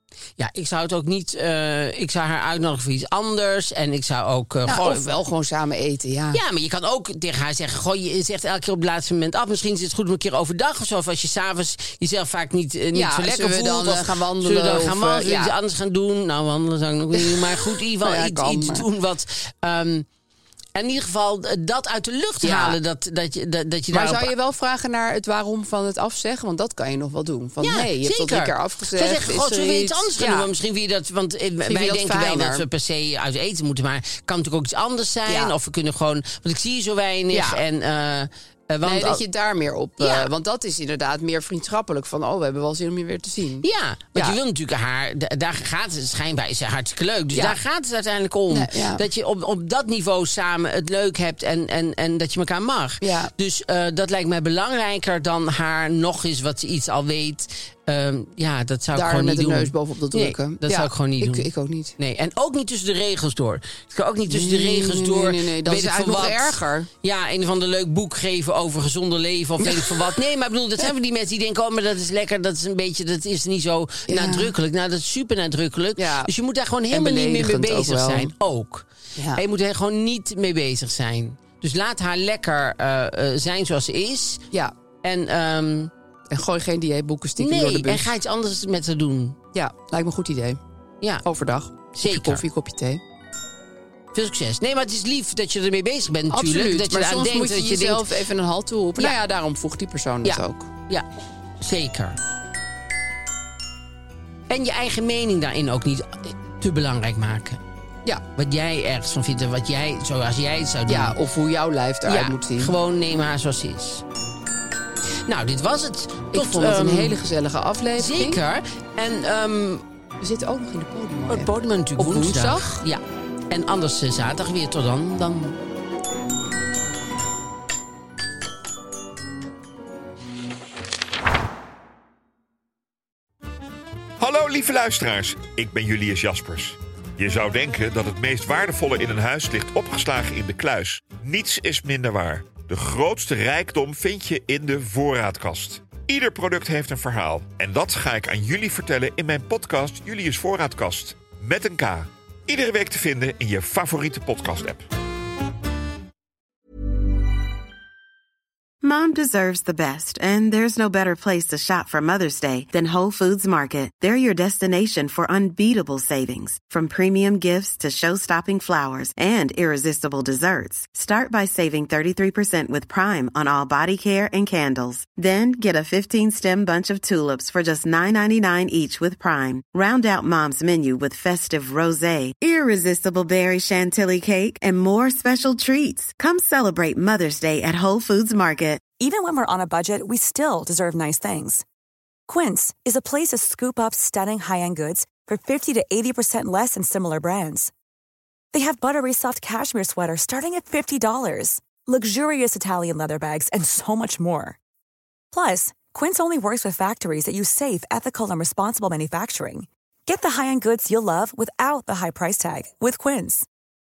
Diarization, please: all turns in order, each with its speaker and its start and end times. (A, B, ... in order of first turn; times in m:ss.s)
0:00.4-0:05.1 A
0:04.6-0:06.4 B
0:06.3-0:20.1 A
0:12.9-0:15.5 B
0:17.1-0:18.8 B
0:20.7-0:24.3 A
0:22.4-0:22.8 B
0:23.9-0:30.5 B
0:27.6-0:39.2 A
0:31.6-0:32.6 B
0:35.2-0:35.5 B
0:37.3-0:37.6 B
0:38.8-0:44.4 B
0:40.0-0:40.3 A
0:43.6-1:24.4 A
0:47.3-0:47.6 B
0:48.5-0:49.0 B
0:53.0-0:53.3 B
0:58.9-1:01.9 B
1:04.3-1:06.9 B
1:09.6-1:10.0 B
1:14.0-1:14.5 B
1:16.0-1:16.3 B
1:16.9-1:18.3 B
1:19.2-1:19.4 B
1:25.0-1:25.9 A
1:26.3-1:28.0 B
1:27.4-1:29.4 A
1:29.5-1:30.6 B
1:31.2-1:33.0 B
1:31.9-1:32.4 A
1:34.1-1:38.1 A
1:36.3-1:40.7 B
1:40.2-1:41.1 A
1:41.6-1:42.2 A
1:44.5-1:47.6 A
1:48.3-1:51.2 A
1:50.9-1:52.7 B
1:52.0-1:54.0 A
1:55.2-1:57.2 A
1:56.3-1:58.4 B
1:58.0-1:59.8 A
2:00.2-2:02.8 B
2:01.3-2:05.6 A
2:14.2-2:34.9 C
2:38.8-3:08.9 D
3:08.9-3:11.6 E
3:12.3-3:17.7 E
3:18.5-3:24.6 E
3:25.3-3:33.4 E